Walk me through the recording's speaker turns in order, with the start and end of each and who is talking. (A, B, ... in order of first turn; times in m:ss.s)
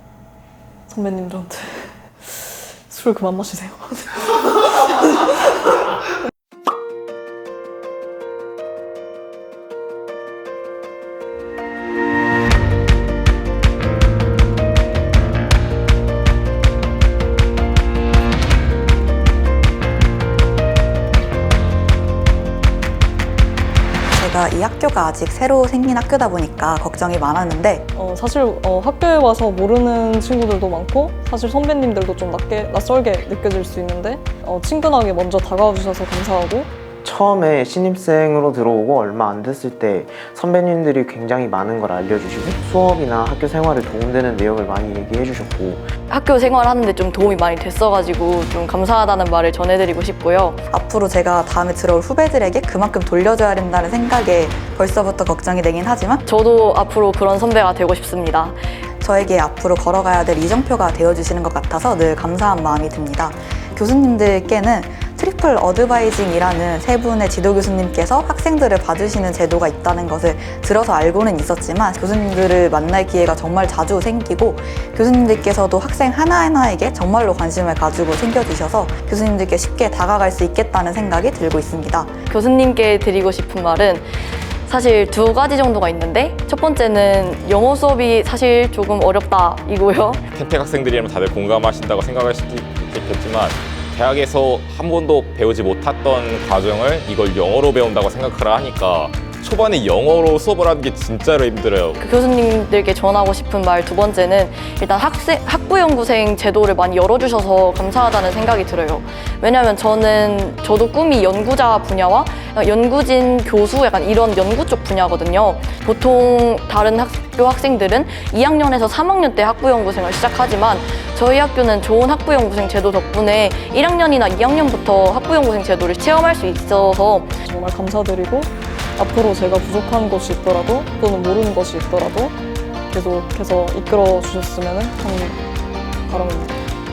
0:00.9-0:04.4 A
0:24.1-0:27.8 B
0:28.0-0:36.7 A
0:37.0-0:45.9 C
0:46.1-0:50.6 D
0:50.7-0:56.2 B
0:56.2-0:58.7 D
0:59.0-1:22.1 B
1:22.3-1:24.1 D
1:24.6-1:30.2 D
1:30.3-1:42.0 E
1:42.0-2:07.4 D
2:07.4-2:12.3 A
2:12.9-2:15.4 A
2:16.1-2:16.6 A